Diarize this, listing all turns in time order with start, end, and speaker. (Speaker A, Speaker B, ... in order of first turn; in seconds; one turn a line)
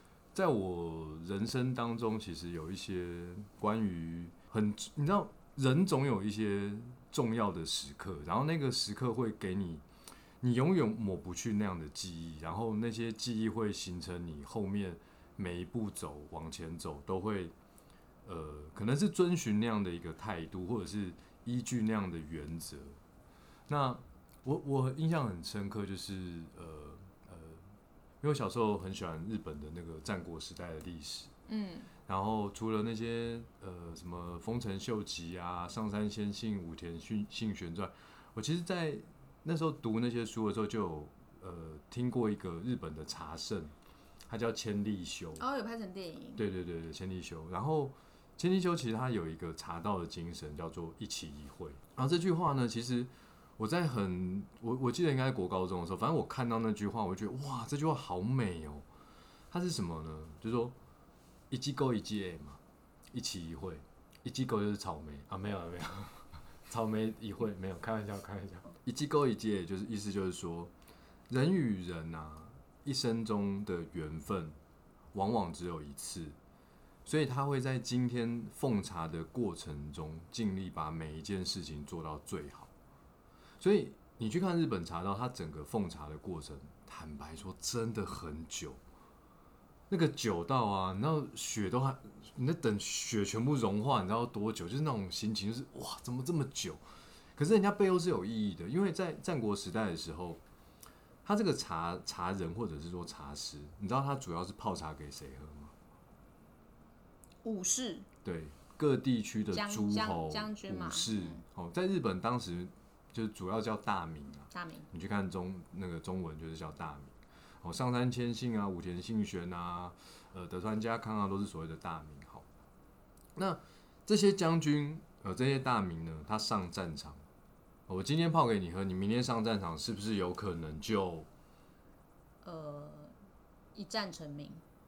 Speaker A: 0.3-9.8
Speaker A: 10.4-17.5
Speaker A: 18.2-23.0
Speaker A: 23.7-27.6
Speaker A: 28.2-31.3
Speaker B: 31.5-31.9
Speaker A: 32.1-43.7
Speaker A: 44.3-45.4
Speaker B: 45.4-46.4
Speaker A: 46.4-58.8
Speaker A: 59.5-60.7
Speaker A: 61.5-62.6
Speaker A: 63.1-70.7
Speaker A: 71.3-74.5
Speaker A: 75.1-76.3
Speaker A: 77.0-82.7
Speaker A: 83.6-88.8
Speaker A: 89.9-96.8
Speaker A: 97.3-100.4
Speaker A: 101.2-105.7
Speaker B: 107.4-108.1
Speaker A: 108.2-122.5
Speaker B: 109.5-111.4
Speaker B: 114.5-114.9
Speaker A: 123.3-127.2
Speaker A: 127.9-131.3
Speaker B: 132.4-133.1
Speaker B: 133.7-134.6